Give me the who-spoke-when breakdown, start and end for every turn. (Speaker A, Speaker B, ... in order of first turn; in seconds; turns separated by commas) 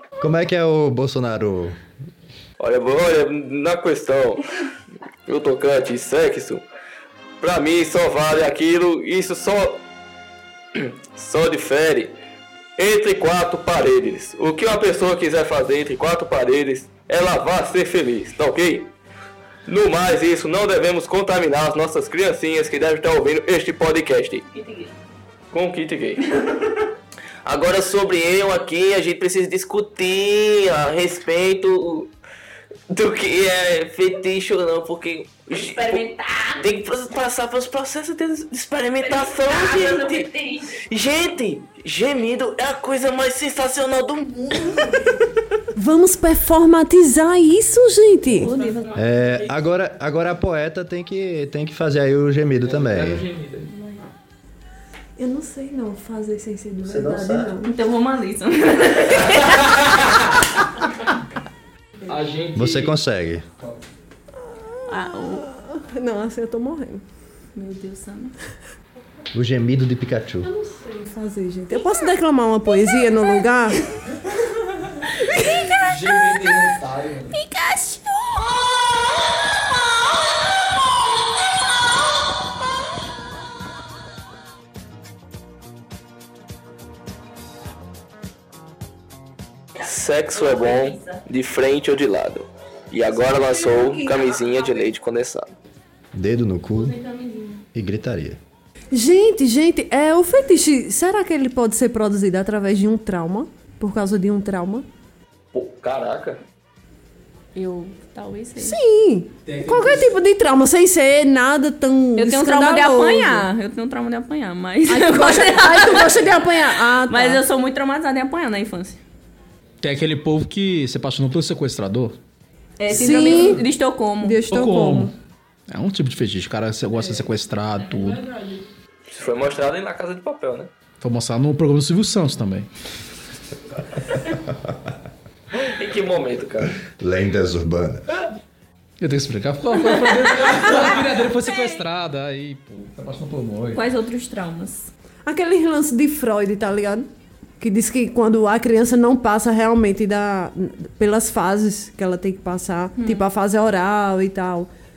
Speaker A: 0.2-1.8, Speaker B: 2.6-4.7, Speaker B: 5.2-6.6, Speaker B: 7.4-9.8, Speaker B: 10.7-12.2, Speaker B: 12.8-18.9, Speaker B: 19.7-24.4, Speaker C: 24.5-24.9, Speaker B: 25.5-26.2, Speaker B: 27.4-32.1, Speaker B: 32.9-45.1, Speaker C: 35.5-36.6, Speaker C: 39.0-40.8, Speaker D: 45.7-48.5, Speaker C: 48.4-49.0, Speaker A: 48.9-53.2, Speaker B: 52.6-53.7, Speaker C: 53.7-54.0, Speaker D: 55.2-57.7, Speaker A: 56.8-57.6, Speaker C: 57.6-59.6, Speaker B: 59.7-60.2, Speaker B: 62.1-63.0, Speaker A: 62.5-63.5, Speaker D: 64.4-67.0, Speaker C: 64.9-65.5, Speaker C: 67.5-68.3, Speaker A: 69.3-70.5, Speaker D: 70.4-73.9, Speaker C: 75.2-76.6, Speaker B: 75.8-77.3, Speaker C: 77.3-78.5, Speaker B: 89.8-95.5, Speaker C: 90.3-91.2, Speaker D: 93.2-94.3, Speaker A: 96.1-97.0, Speaker C: 96.7-97.6, Speaker A: 97.7-98.4, Speaker D: 98.9-104.8, Speaker B: 105.5-106.4, Speaker C: 107.5-108.8, Speaker D: 108.6-113.5, Speaker E: 109.4-110.1, Speaker C: 112.2-116.3, Speaker D: 114.9-117.4, Speaker C: 117.0-119.0, Speaker E: 119.8-122.2, Speaker C: 122.8-124.4, Speaker D: 122.9-123.6, Speaker E: 123.2-123.4, Speaker D: 124.2-125.1, Speaker E: 124.5-125.1, Speaker E: 125.7-128.4, Speaker B: 129.1-130.7, Speaker E: 131.0-132.7, Speaker B: 135.7-136.7, Speaker A: 137.0-138.1, Speaker E: 139.0-143.8, Speaker C: 139.9-140.7, Speaker C: 141.5-141.8, Speaker C: 143.7-144.9, Speaker D: 145.2-147.1, Speaker D: 147.6-154.7, Speaker C: 153.0-153.2